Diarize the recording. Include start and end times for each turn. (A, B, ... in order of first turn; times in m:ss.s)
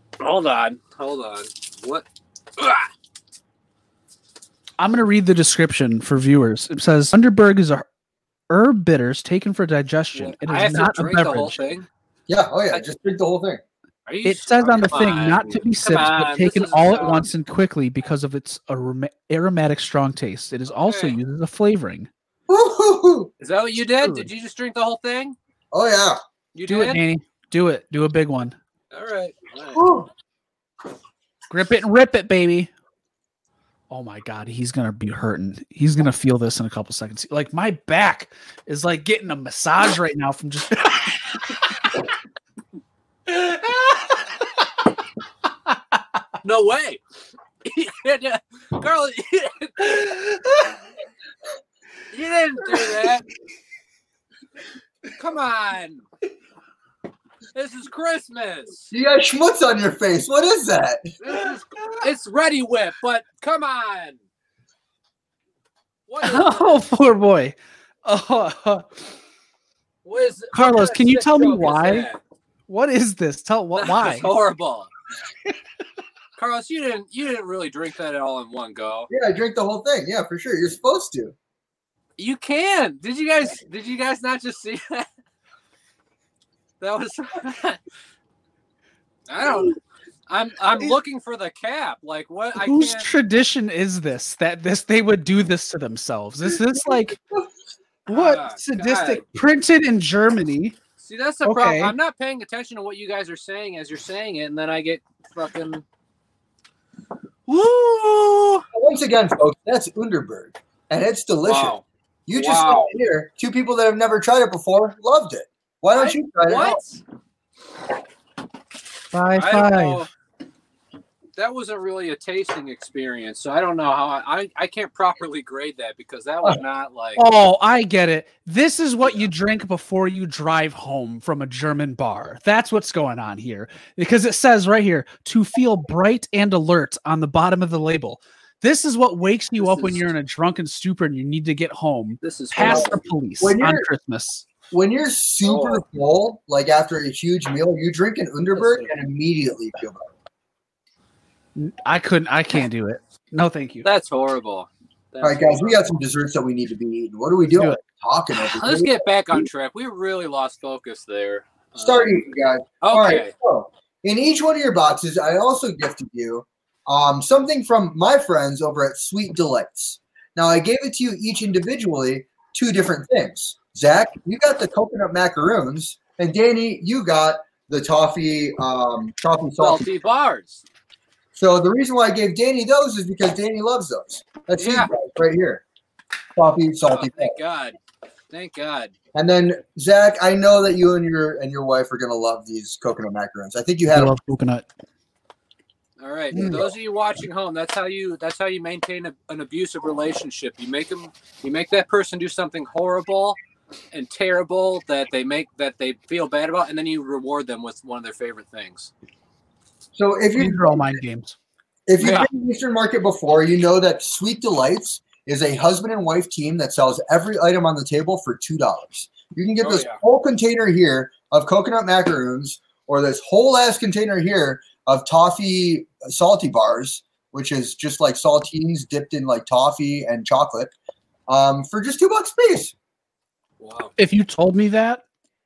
0:00.2-0:02.0 A
0:02.6-0:02.9 A
0:04.8-0:07.9 B
0:08.5-0:11.6 B
0:10.1-0:11.8 A
0:12.3-0:13.6 C
0:14.1-0:17.3 A
0:14.2-0:22.1 B
0:20.7-0:21.2 A
0:22.5-0:23.3 C
0:23.4-0:25.3 A
0:24.0-0:24.3 B
0:25.7-0:26.2 C
0:26.5-0:27.0 A
0:26.6-0:28.6 B
0:28.9-0:29.8 A
0:29.7-0:30.1 C
0:31.5-0:32.7 B
0:33.9-0:41.2 B
0:46.4-0:47.0 A
0:47.6-0:50.2 A
0:52.1-0:53.2 A
0:55.1-0:56.0 A
0:57.5-0:58.9 A
0:58.9-1:01.2 C
1:01.2-1:04.2 A
1:06.1-1:06.8 A
1:06.2-1:08.9 B
1:10.0-1:12.2 A
1:10.5-1:12.1 B
1:12.7-1:14.3 B
1:13.8-1:14.9 A
1:16.4-1:19.1 A
1:19.1-1:21.3 C
1:22.2-1:25.1 A
1:26.8-1:27.8 A
1:29.3-1:33.1 A
1:32.6-1:37.2 B
1:38.1-1:40.8 B
1:38.1-1:39.2 A
1:41.0-1:45.8 A
1:41.4-1:41.9 B
1:47.5-1:48.6 B
1:48.7-1:51.7 C
1:51.4-1:52.9 A
1:52.3-1:56.8 C
1:55.9-1:57.0 A
1:59.1-2:00.0 B
1:59.4-2:00.1 A
2:01.4-2:07.2 A
2:07.2-2:24.4 B
2:19.6-2:20.1 A
2:22.2-2:23.0 A
2:22.6-2:23.9 C
2:24.7-2:30.1 C
2:25.4-2:25.8 A
2:28.5-2:28.9 A
2:31.6-2:33.9 B
2:33.8-2:35.8 A
2:35.2-2:39.4 C
2:37.5-2:37.8 B
2:38.4-2:42.3 A
2:41.8-2:59.8 C
2:42.8-2:43.3 A
2:59.6-3:00.6 A
3:01.3-3:05.6 C
3:04.6-3:04.9 A
3:06.4-3:07.3 C
3:06.8-3:07.8 A
3:08.3-3:08.9 A
3:09.1-3:14.1 C
3:13.9-3:14.7 B
3:16.0-3:23.4 A
3:16.3-3:16.7 C
3:23.9-3:28.9 A
3:29.9-3:31.0 C
3:30.4-3:31.3 B
3:31.9-3:50.7 C
3:39.6-3:40.0 A
3:51.3-3:52.7 C
3:53.6-3:53.9 A
3:54.0-3:55.0 B